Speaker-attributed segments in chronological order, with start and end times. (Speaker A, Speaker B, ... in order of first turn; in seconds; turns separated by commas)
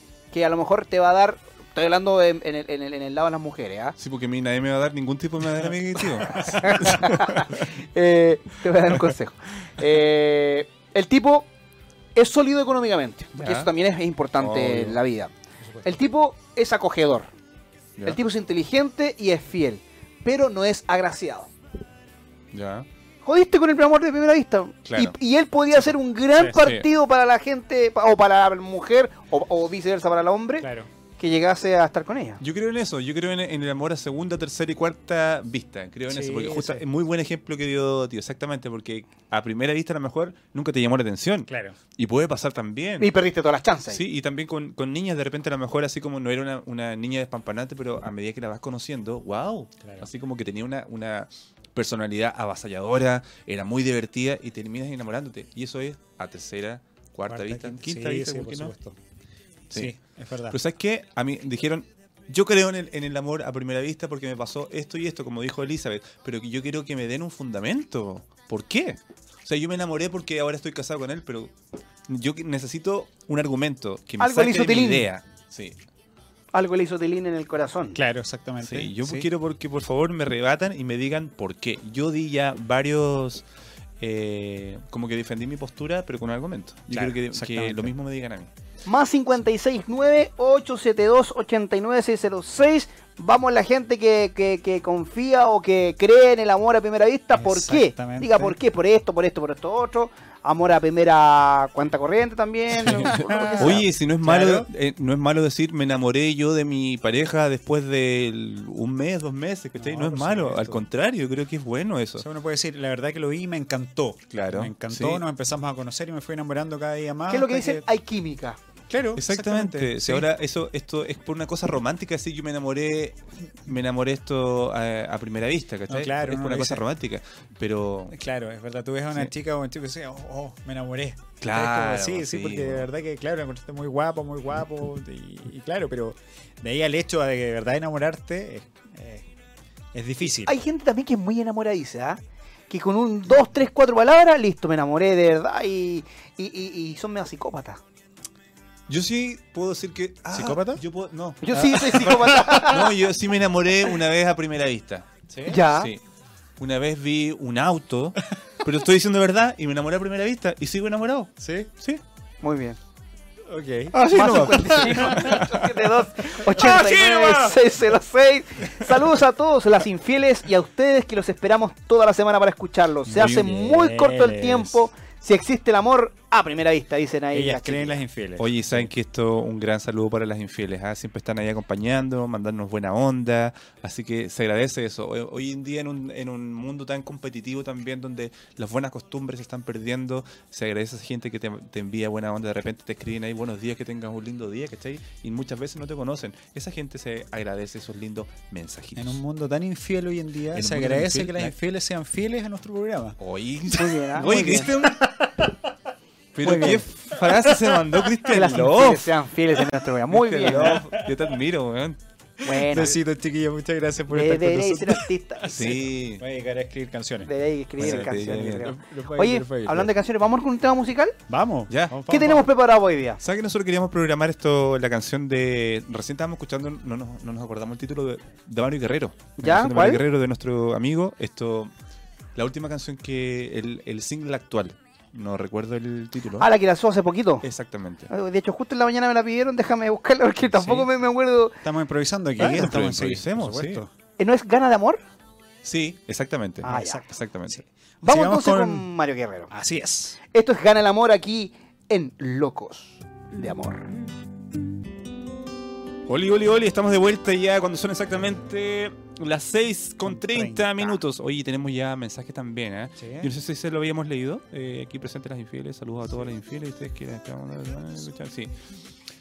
Speaker A: 0.3-4.0, Speaker B: 4.0-7.7, Speaker A: 6.4-11.5, Speaker C: 6.4-6.9, Speaker A: 12.2-15.3, Speaker B: 13.4-13.7, Speaker B: 14.4-15.0, Speaker C: 15.6-16.0, Speaker A: 15.8-17.3, Speaker A: 18.1-21.5, Speaker B: 22.5-22.9, Speaker A: 23.2-30.7, Speaker B: 24.9-25.2, Speaker C: 26.4-26.6, Speaker B: 26.6-26.9, Speaker C: 30.6-30.9, Speaker A: 31.2-32.4, Speaker B: 32.4-43.1, Speaker C: 36.1-36.9, Speaker C: 41.5-41.8, Speaker A: 43.0-44.0, Speaker B: 43.9-58.7, Speaker C: 49.8-50.1, Speaker C: 57.3-59.0, Speaker B: 59.7-60.0, Speaker C: 59.7-60.6, Speaker B: 60.5-71.5, Speaker B: 72.1-75.8, Speaker A: 74.2-75.1, Speaker A: 76.5-78.0, Speaker C: 78.0-79.3, Speaker B: 78.6-83.4, Speaker B: 84.0-88.5, Speaker C: 86.9-88.0, Speaker A: 88.9-103.8, Speaker C: 97.3-98.6, Speaker B: 102.7-112.3, Speaker C: 102.8-104.7, Speaker C: 109.8-110.9, Speaker C: 112.2-117.8, Speaker B: 114.3-115.2, Speaker A: 117.3-118.6, Speaker C: 118.9-120.3, Speaker B: 119.2-128.2, Speaker C: 125.9-126.8, Speaker C: 128.1-139.3, Speaker B: 131.4-132.9, Speaker C: 139.9-140.6, Speaker A: 140.2-142.2, Speaker A: 142.7-147.8, Speaker B: 148.9-155.1, Speaker C: 150.3-150.8, Speaker A: 151.4-152.9, Speaker C: 151.5-152.7, Speaker C: 155.3-155.6, Speaker A: 155.5-155.9, Speaker B: 155.6-156.0, Speaker B: 156.6-162.0, Speaker C: 161.4-161.7, Speaker A: 162.4-162.8, Speaker C: 163.5-164.0, Speaker B: 163.9-165.5, Speaker A: 164.1-178.0, Speaker C: 164.5-165.4, Speaker C: 166.3-167.6, Speaker C: 173.1-174.8, Speaker B: 173.2-173.5, Speaker C: 177.3-178.9, Speaker B: 178.4-199.2, Speaker C: 199.0-203.2, Speaker B: 200.5-201.6, Speaker B: 203.2-205.1, Speaker A: 203.7-204.7, Speaker C: 204.2-205.7, Speaker B: 206.3-209.1, Speaker A: 206.4-206.9, Speaker C: 207.1-208.1, Speaker A: 208.3-210.8, Speaker B: 210.1-212.0, Speaker C: 210.5-211.3, Speaker C: 212.4-219.9, Speaker A: 212.4-213.0, Speaker A: 214.1-215.8, Speaker B: 215.5-216.2, Speaker A: 217.2-221.2, Speaker B: 217.8-218.8, Speaker C: 221.3-222.5, Speaker B: 221.7-222.0, Speaker A: 222.1-223.2, Speaker B: 223.2-231.7, Speaker A: 229.4-230.0, Speaker B: 232.4-236.5, Speaker A: 236.4-237.4, Speaker B: 237.4-238.1, Speaker A: 238.1-241.6, Speaker C: 240.5-240.9, Speaker C: 241.6-243.9, Speaker B: 242.4-243.8, Speaker A: 244.2-245.0, Speaker B: 245.6-247.6, Speaker C: 246.6-248.9, Speaker A: 246.6-247.0, Speaker A: 248.0-249.5, Speaker C: 249.5-250.2, Speaker A: 250.3-253.9, Speaker B: 256.1-268.5, Speaker C: 260.0-261.0, Speaker C: 263.0-263.3